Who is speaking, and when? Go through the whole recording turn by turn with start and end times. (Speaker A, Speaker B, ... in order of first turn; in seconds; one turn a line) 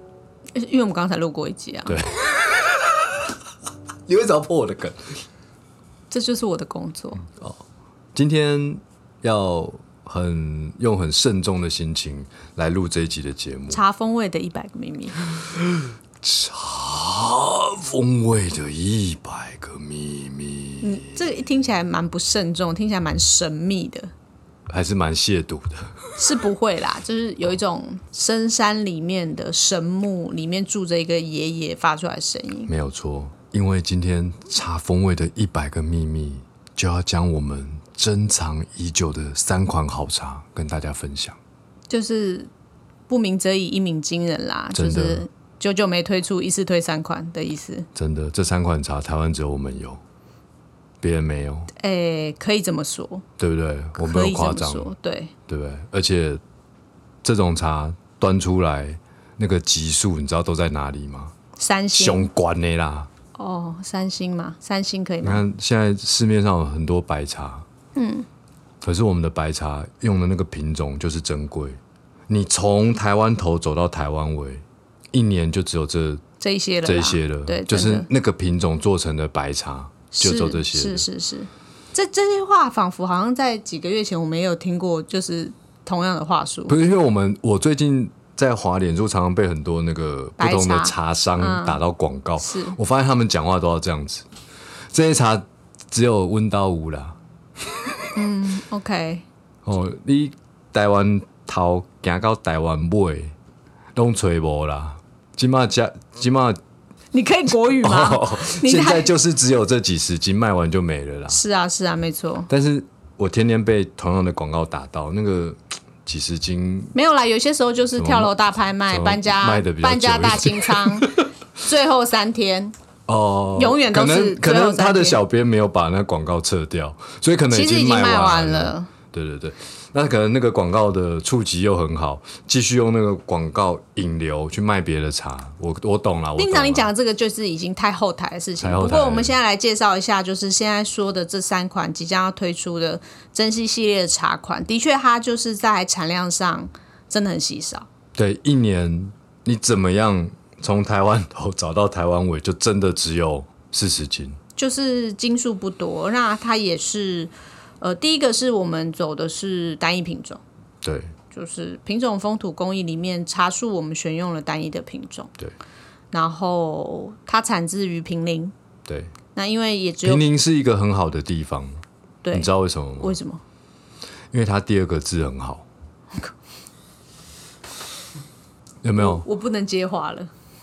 Speaker A: 0.6-2.0
Speaker B: 1.9-3.3
Speaker B: 4.1-5.0
Speaker A: 6.1-7.2
Speaker B: 8.1-13.8
Speaker A: 13.7-15.2
Speaker B: 15.3-21.2
Speaker A: 20.8-24.1
Speaker B: 24.7-26.1
Speaker A: 26.2-32.7
Speaker B: 32.7-41.4
Speaker A: 41.9-42.5
Speaker A: 43.1-47.9
Speaker B: 44.7-45.2
Speaker B: 47.9-50.0
Speaker B: 51.0-51.7
Speaker A: 51.8-53.2
Speaker B: 53.4-54.9
Speaker A: 54.0-55.3
Speaker B: 55.5-56.4
Speaker B: 57.2-61.3
Speaker A: 61.6-62.3
Speaker B: 62.0-63.1
Speaker A: 63.3-65.4
Speaker B: 65.2-67.7
Speaker A: 67.9-68.2
Speaker B: 68.8-76.2
Speaker A: 76.4-78.1
Speaker B: 76.8-81.0
Speaker A: 80.1-86.8
Speaker B: 86.7-94.2
Speaker A: 90.4-91.8
Speaker A: 92.4-92.8
Speaker B: 94.9-97.2
Speaker A: 98.1-99.2
Speaker B: 99.6-103.3
Speaker B: 103.9-106.6
Speaker A: 107.1-109.1
Speaker B: 107.8-111.4
Speaker A: 111.3-112.5
Speaker B: 112.5-116.9
Speaker A: 116.9-122.7
Speaker B: 118.0-118.3
Speaker B: 118.9-121.3
Speaker B: 123.1-136.9
Speaker A: 123.5-125.2
Speaker A: 127.5-128.9
Speaker A: 136.3-147.9
Speaker B: 138.6-139.3
Speaker B: 148.1-154.4
Speaker A: 154.6-160.4
Speaker B: 160.8-161.1
Speaker A: 161.3-165.3
Speaker A: 166.1-168.5
Speaker B: 168.9-169.1
Speaker A: 169.3-170.2
Speaker B: 170.0-171.8
Speaker A: 172.2-172.5
Speaker B: 172.3-173.1
Speaker A: 173.0-173.4
Speaker B: 174.3-175.6
Speaker B: 178.8-179.2
Speaker A: 179.0-180.3